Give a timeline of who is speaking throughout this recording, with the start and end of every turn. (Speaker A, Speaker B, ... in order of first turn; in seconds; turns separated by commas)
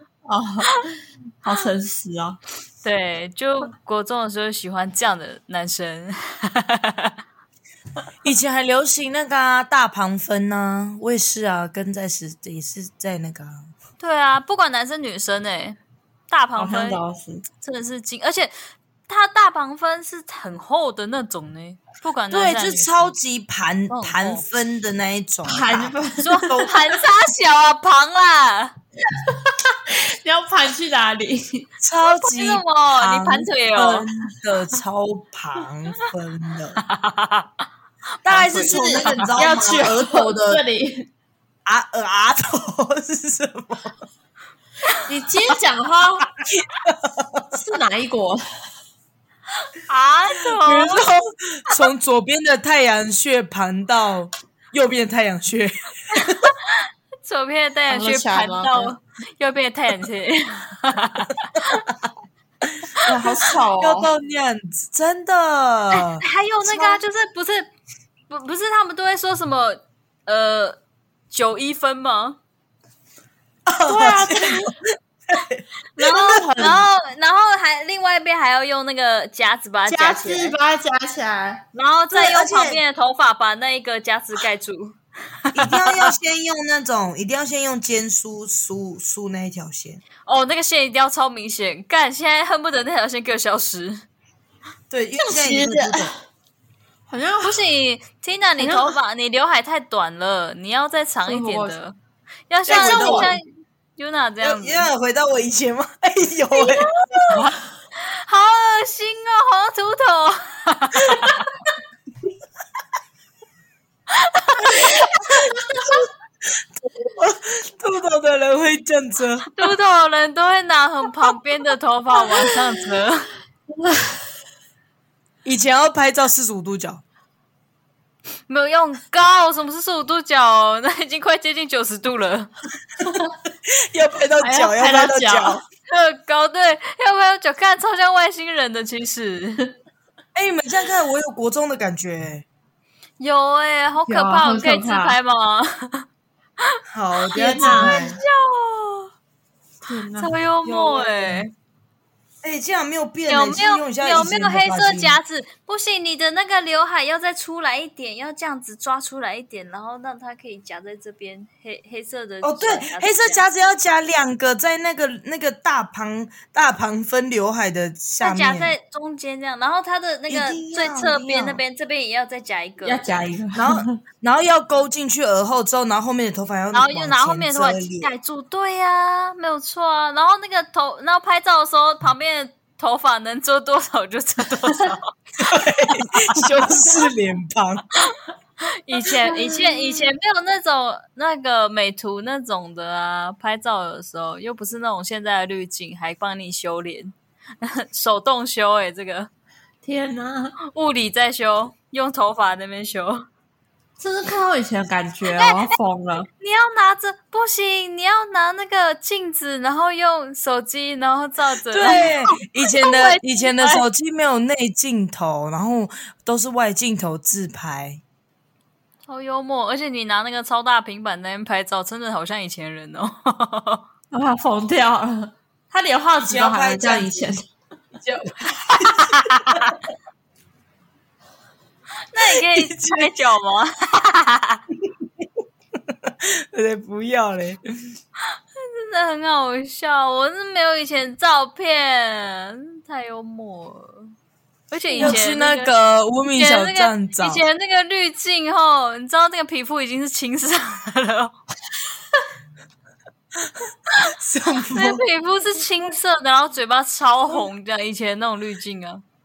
Speaker A: 0.2-2.4, Speaker B: 2.8-7.1, Speaker C: 8.2-13.7, Speaker B: 14.0-15.8, Speaker B: 16.3-17.0, Speaker A: 16.6-17.4, Speaker B: 17.6-18.5, Speaker B: 19.1-23.1, Speaker C: 22.3-26.7, Speaker B: 23.9-24.4, Speaker A: 25.4-26.7, Speaker B: 26.2-28.7, Speaker A: 29.1-31.7, Speaker C: 31.8-36.8, Speaker B: 32.0-34.1, Speaker B: 36.8-37.5, Speaker C: 38.2-40.6, Speaker A: 38.3-41.1, Speaker B: 38.5-39.3, Speaker C: 41.6-44.0, Speaker A: 45.0-46.3, Speaker C: 46.4-47.6, Speaker A: 47.5-48.4, Speaker B: 49.9-51.1, Speaker C: 50.6-56.4, Speaker B: 56.2-61.8, Speaker A: 57.9-59.0, Speaker C: 62.9-66.2, Speaker A: 63.0-64.1, Speaker B: 65.9-67.7, Speaker B: 68.3-70.8, Speaker B: 71.3-72.4, Speaker C: 73.7-76.7, Speaker A: 73.8-74.7, Speaker B: 76.0-80.5, Speaker A: 76.4-76.8, Speaker A: 79.9-81.7, Speaker B: 81.7-85.0, Speaker C: 82.1-82.8, Speaker C: 85.5-90.0, Speaker B: 85.6-86.1, Speaker B: 90.2-94.0, Speaker C: 94.9-96.1, Speaker A: 95.1-96.2, Speaker A: 97.1-97.6, Speaker B: 97.4-102.0, Speaker A: 98.6-99.0, Speaker A: 101.2-101.8, Speaker B: 102.5-103.5, Speaker A: 102.7-103.3, Speaker C: 102.7-103.4, Speaker B: 104.0-104.9, Speaker C: 104.4-106.9, Speaker B: 106.5-107.4, Speaker A: 107.2-107.6, Speaker B: 108.0-111.5, Speaker B: 114.1-115.0, Speaker C: 115.3-119.7, Speaker B: 119.5-123.3, Speaker A: 123.7-124.2, Speaker C: 125.4-127.0, Speaker B: 128.5-132.5, Speaker A: 133.0-133.3, Speaker C: 133.7-135.6, Speaker A: 134.4-135.6, Speaker B: 135.9-139.6, Speaker C: 140.3-142.4, Speaker B: 143.2-146.1, Speaker A: 144.1-145.2, Speaker C: 146.9-148.2, Speaker B: 147.2-149.1, Speaker A: 147.3-148.1, Speaker A: 149.8-150.3, Speaker B: 150.2-151.5, Speaker C: 150.6-151.4, Speaker C: 152.4-155.2, Speaker B: 153.3-163.4, Speaker C: 162.4-168.7, Speaker B: 168.2-173.1, Speaker C: 170.3-171.6, Speaker A: 172.8-173.9, Speaker C: 173.5-178.1, Speaker B: 176.7-185.1, Speaker C: 185.4-187.9, Speaker B: 188.7-199.3, Speaker A: 189.0-190.1, Speaker A: 199.8-200.6, Speaker B: 200.7-203.2, Speaker A: 204.0-206.3, Speaker B: 205.3-205.7, Speaker B: 206.4-212.1, Speaker C: 211.7-218.0, Speaker B: 212.7-213.8, Speaker B: 219.1-223.8, Speaker A: 224.1-227.4, Speaker C: 226.2-227.3, Speaker C: 227.9-229.8, Speaker B: 229.0-229.8, Speaker B: 232.1-234.6, Speaker C: 232.2-233.1, Speaker C: 234.8-235.3, Speaker C: 235.9-237.9, Speaker B: 238.3-244.1, Speaker B: 244.7-245.7, Speaker A: 244.9-245.2, Speaker C: 245.0-247.4, Speaker B: 246.2-251.3, Speaker C: 254.0-255.0, Speaker B: 254.7-259.0